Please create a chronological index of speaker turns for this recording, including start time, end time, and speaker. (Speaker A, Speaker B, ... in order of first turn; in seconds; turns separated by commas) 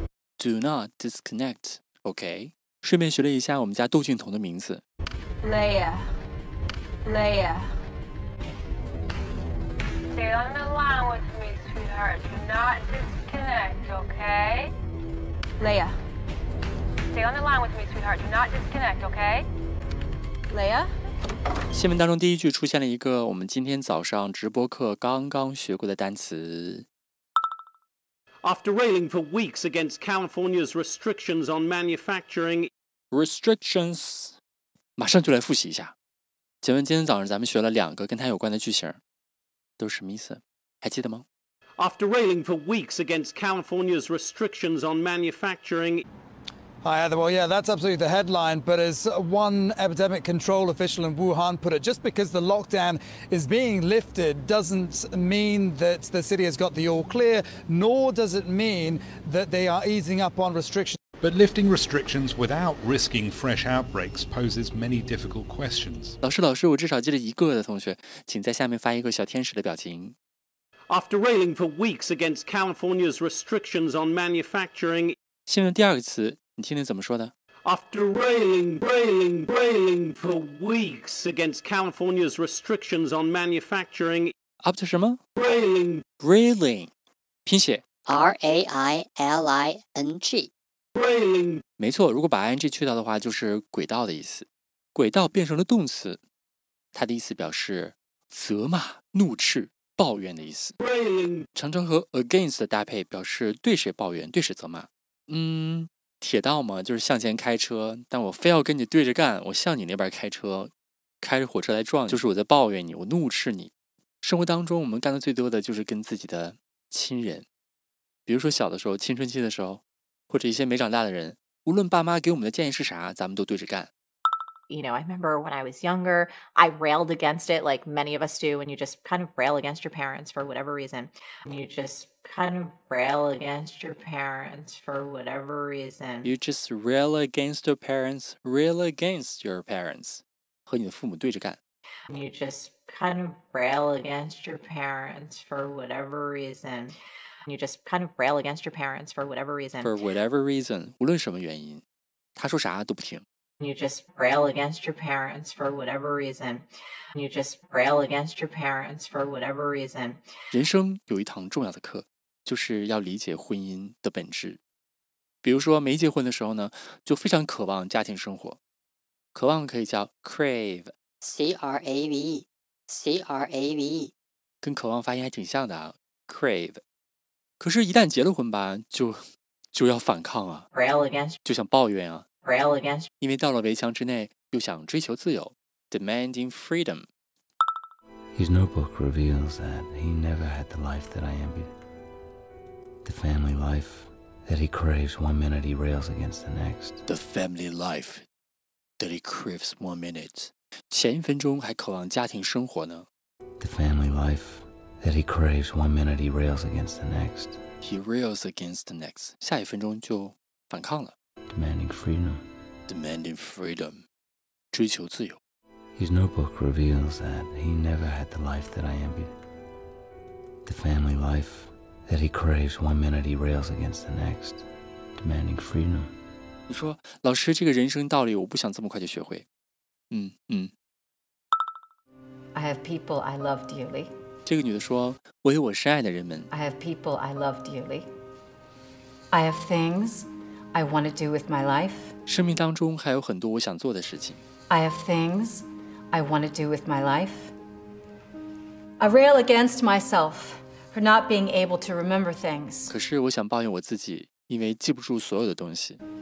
Speaker A: 0.4-4.8, Speaker B: 5.4-6.1, Speaker B: 7.0-7.7, Speaker B: 10.1-14.7, Speaker B: 15.6-16.0, Speaker B: 17.1-19.4, Speaker B: 20.5-20.9, Speaker A: 21.7-26.9, Speaker C: 28.4-32.7, Speaker A: 33.1-34.4, Speaker A: 35.0-35.9, Speaker A: 36.6-39.0, Speaker A: 39.8-41.2, Speaker C: 41.8-46.0, Speaker D: 46.8-61.0, Speaker E: 61.2-66.2, Speaker A: 66.2-70.2, Speaker C: 70.9-75.1, Speaker A: 75.5-77.3, Speaker C: 77.7-84.3, Speaker A: 84.6-85.2, Speaker C: 85.4-86.0, Speaker A: 86.2-86.9, Speaker A: 87.5-87.8, Speaker F: 88.0-90.5, Speaker C: 90.9-91.6, Speaker A: 91.8-96.2, Speaker A: 96.9-100.7, Speaker C: 100.8-101.4, Speaker A: 101.5-110.7, Speaker A: 111.2-113.7, Speaker A: 114.2-117.5, Speaker A: 118.3-123.9, Speaker G: 124.7-136.2, Speaker A: 136.2-141.6, Speaker G: 142.1-146.9, Speaker G: 147.5-149.7, Speaker A: 149.8-151.8, Speaker A: 152.4-153.2, Speaker G: 153.6-156.7, Speaker G: 157.2-160.1, Speaker A: 160.5-164.6, Speaker A: 165.4-168.6, Speaker A: 169.3-170.9, Speaker F: 171.2-174.1, Speaker A: 174.6-176.8, Speaker A: 177.6-180.7, Speaker A: 181.4-182.2, Speaker A: 183.2-187.1, Speaker H: 188.3-191.7, Speaker H: 193.0-197.0, Speaker A: 197.1-198.2, Speaker A: 199.0-203.1, Speaker H: 203.6-207.6, Speaker A: 207.8-211.1, Speaker H: 211.5-212.4, Speaker A: 212.9-214.0, Speaker A: 214.7-215.4, Speaker H: 216.0-219.3, Speaker H: 220.7-224.6, Speaker H: 225.2-226.1, Speaker A: 226.7-229.4, Speaker A: 230.1-230.7, Speaker I: 232.5-234.1, Speaker A: 234.4-236.5, Speaker I: 236.5-238.1, Speaker I: 239.3-242.1, Speaker A: 242.3-244.4, Speaker I: 244.7-247.5, Speaker I: 249.0-252.9, Speaker A: 252.9-256.0